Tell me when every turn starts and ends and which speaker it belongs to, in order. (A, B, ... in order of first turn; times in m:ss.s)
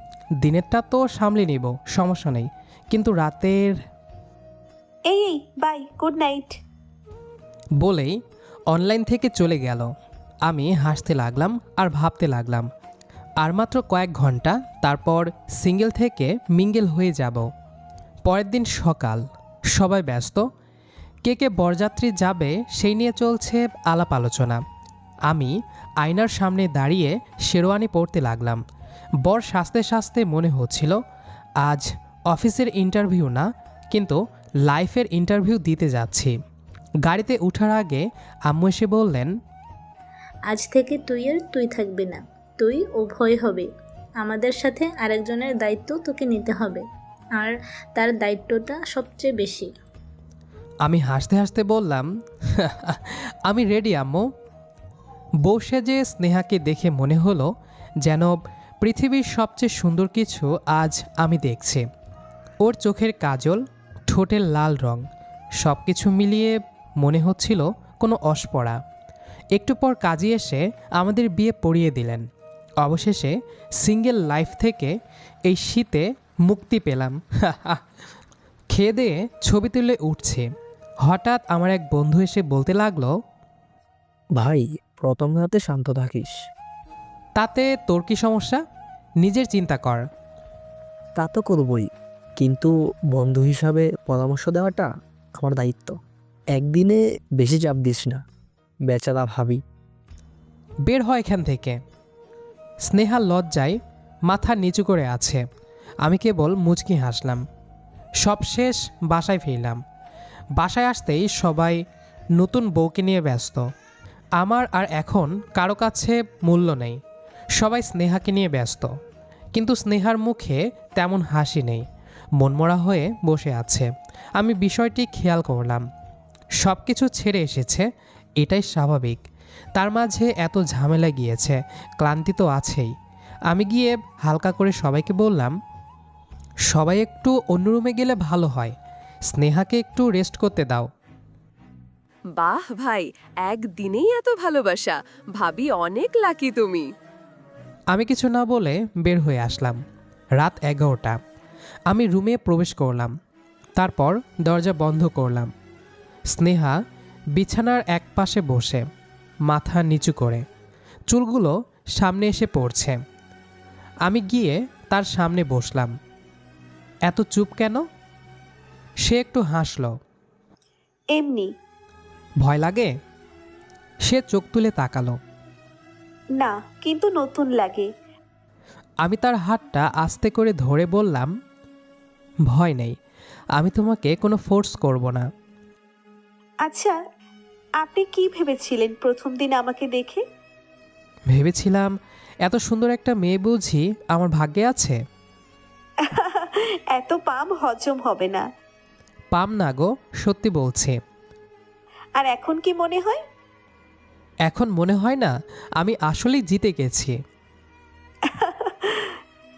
0:00.4-0:03.8 A
0:05.1-0:06.6 B
0:07.8-0:08.2 A
0:08.7-0:09.9 A
0:10.4-0:12.7 A
0:13.4-0:17.5 A
0:18.2-0:20.4 A
0:21.2-0:24.6 A
0:25.3-0:28.6 A
0:29.2-0:31.0 A
0:31.6-0:36.3 A
0:37.0-0:39.3 A
0:40.5-0:43.7 C
0:44.2-0:49.7 C
0:50.8-0:54.3 A
0:55.4-0:57.5 A
0:58.0-1:01.8 A
1:02.6-1:05.1 A
1:05.6-1:08.8 A
1:09.5-1:12.3 A
1:12.8-1:15.0 A
1:15.5-1:17.8 A
1:18.7-1:20.5 A
1:21.0-1:23.1 A
1:24.3-1:26.4 D
1:27.4-1:28.6 A
1:29.2-1:30.0 A
1:31.2-1:36.0 D
1:36.5-1:38.2 D
1:38.9-1:39.6 D
1:40.9-1:41.8 A
1:42.9-1:45.4 A
1:46.0-1:47.4 A
1:48.2-1:49.8 A
1:50.6-1:51.8 A
1:52.4-1:53.6 A
1:54.4-1:57.0 A
1:57.6-1:58.9 A
1:59.5-2:01.8 A
2:02.4-2:05.8 A
2:06.6-2:09.2 A
2:09.8-2:12.9 A
2:13.5-2:15.6 A
2:16.7-2:18.7 A
2:19.3-2:20.9 A
2:22.3-2:26.9 E
2:27.9-2:29.8 A
2:30.4-2:31.2 A
2:31.9-2:33.1 A
2:33.8-2:35.5 A
2:36.3-2:36.8 A
2:37.3-2:38.9 A
2:39.5-2:40.4 A
2:41.1-2:43.0 A
2:44.0-2:45.9 A
2:47.1-2:47.8 A
2:49.0-2:49.9 A
2:51.1-2:51.5 B
2:52.4-2:52.9 A
2:54.0-2:55.2 A
2:56.4-2:57.9 B
2:59.0-3:01.3 A
3:02.5-3:03.0 A
3:03.6-3:05.3 A
3:06.6-3:07.0 B
3:07.8-3:10.2 B
3:11.3-3:15.0 A
3:16.0-3:18.4 B
3:19.3-3:21.0 A
3:22.2-3:23.2 B
3:24.4-3:27.2 A
3:28.2-3:29.2 B